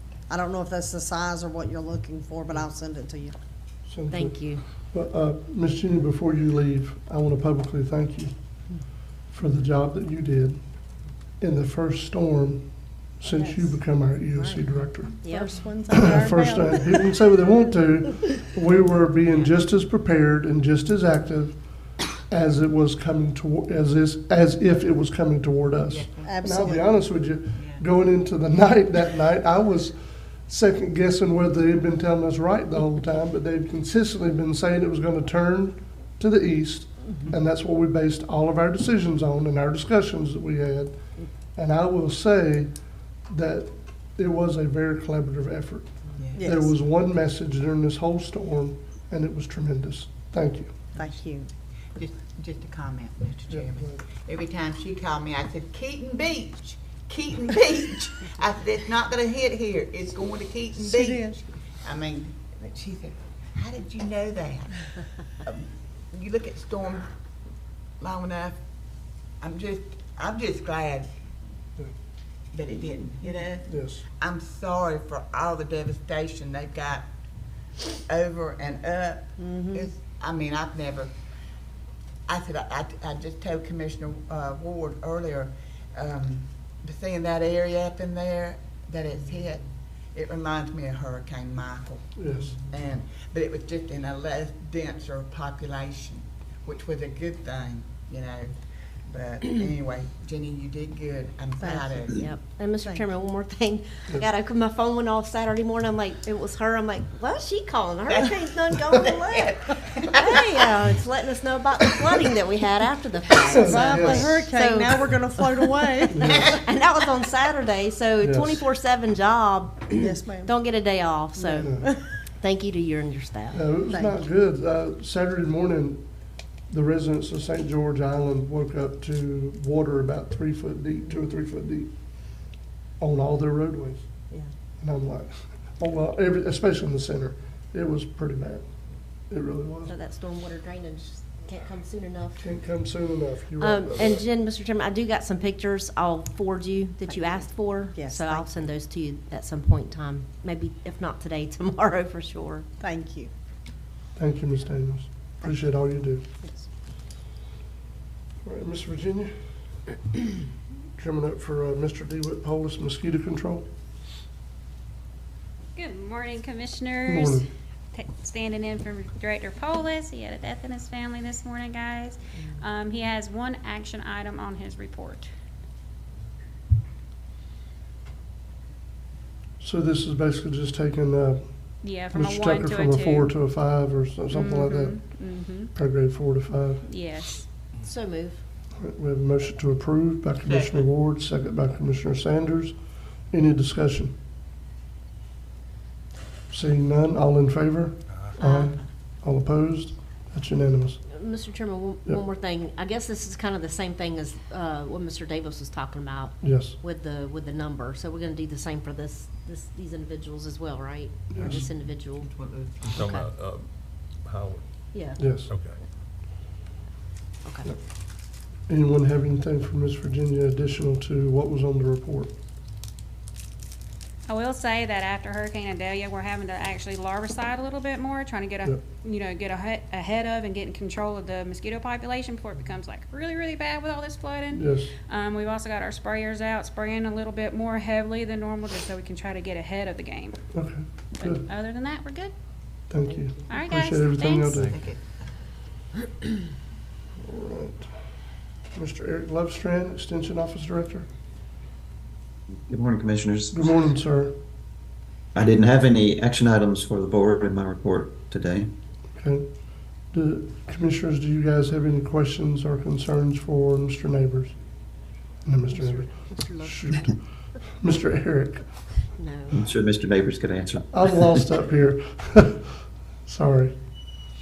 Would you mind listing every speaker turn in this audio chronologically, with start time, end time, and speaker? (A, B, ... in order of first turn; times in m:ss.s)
0:00.3-0:03.4 A
0:03.9-0:04.3 B
0:04.1-0:04.6 C
0:04.9-0:08.3 B
0:09.3-0:10.6 B
0:11.4-0:12.6 B
0:13.2-0:15.2 B
0:14.3-0:14.6 A
0:15.2-0:17.1 A
0:15.2-0:15.5 C
0:15.9-0:21.6 B
0:22.3-0:41.0 B
0:25.9-0:26.4 D
0:26.2-0:26.8 A
0:27.6-0:27.8 D
0:41.5-0:42.7 B
0:43.3-0:50.7 B
0:46.2-0:46.5 D
0:46.4-0:46.7 A
0:51.0-0:51.5 A
0:52.0-1:07.1 D
0:53.5-0:54.0 B
1:00.8-1:01.4 A
1:08.0-1:08.6 D
1:09.4-1:11.1 D
1:12.5-1:17.1 D
1:13.7-1:14.0 B
1:18.0-1:21.1 D
1:19.4-1:19.9 A
1:22.3-1:38.5 D
1:32.2-1:32.6 B
1:39.0-1:42.3 D
1:41.6-1:42.1 A
1:42.1-2:03.6 C
1:42.8-1:43.0 A
1:48.1-1:50.8 D
1:53.5-1:54.3 B
1:53.5-1:56.6 A
1:56.1-1:56.5 B
1:58.2-1:58.7 B
1:59.9-2:00.5 A
2:01.4-2:02.0 A
2:01.6-2:01.9 B
2:03.5-2:06.0 B
2:03.9-2:04.2 A
2:06.7-2:11.9 B
2:13.0-2:14.1 B
2:14.8-2:18.7 B
2:19.3-2:19.9 B
2:19.9-2:22.4 C
2:22.4-2:24.2 B
2:23.6-2:32.6 C
2:27.1-2:28.5 A
2:32.8-2:33.3 A
2:34.2-2:36.2 B
2:38.4-2:39.3 B
2:41.0-2:43.6 B
2:45.8-2:55.3 E
2:47.0-2:47.4 B
2:59.6-3:06.8 B
3:01.8-3:03.3 E
3:04.3-3:05.7 E
3:06.8-3:07.4 E
3:07.8-3:08.4 C
3:08.8-3:12.8 B
3:10.4-3:10.8 D
3:13.3-3:14.1 B
3:16.5-3:21.0 B
3:18.4-3:18.7 C
3:21.1-3:32.3 C
3:26.4-3:26.8 B
3:31.3-3:31.6 B
3:31.5-3:33.0 D
3:32.8-3:34.7 F
3:32.9-3:33.3 C
3:34.9-3:35.4 C
3:35.2-3:35.5 B
3:35.5-3:35.8 F
3:38.7-3:42.3 B
3:44.3-4:00.4 E
3:54.5-3:54.9 B
4:00.5-4:01.4 B
4:01.2-4:02.3 E
4:02.9-4:04.7 B
4:03.0-4:03.6 C
4:03.5-4:04.7 E
4:04.7-4:05.3 D
4:07.2-4:07.9 B
4:08.7-4:11.1 B
4:12.6-4:13.7 G
4:13.5-4:14.3 B
4:15.3-4:18.7 G
4:19.2-4:19.4 B
4:20.1-4:24.5 B
4:25.4-4:27.2 B
4:25.8-4:27.0 C
4:27.7-4:28.7 B
4:29.2-4:29.6 C
4:29.5-4:31.0 G
4:30.9-4:33.8 B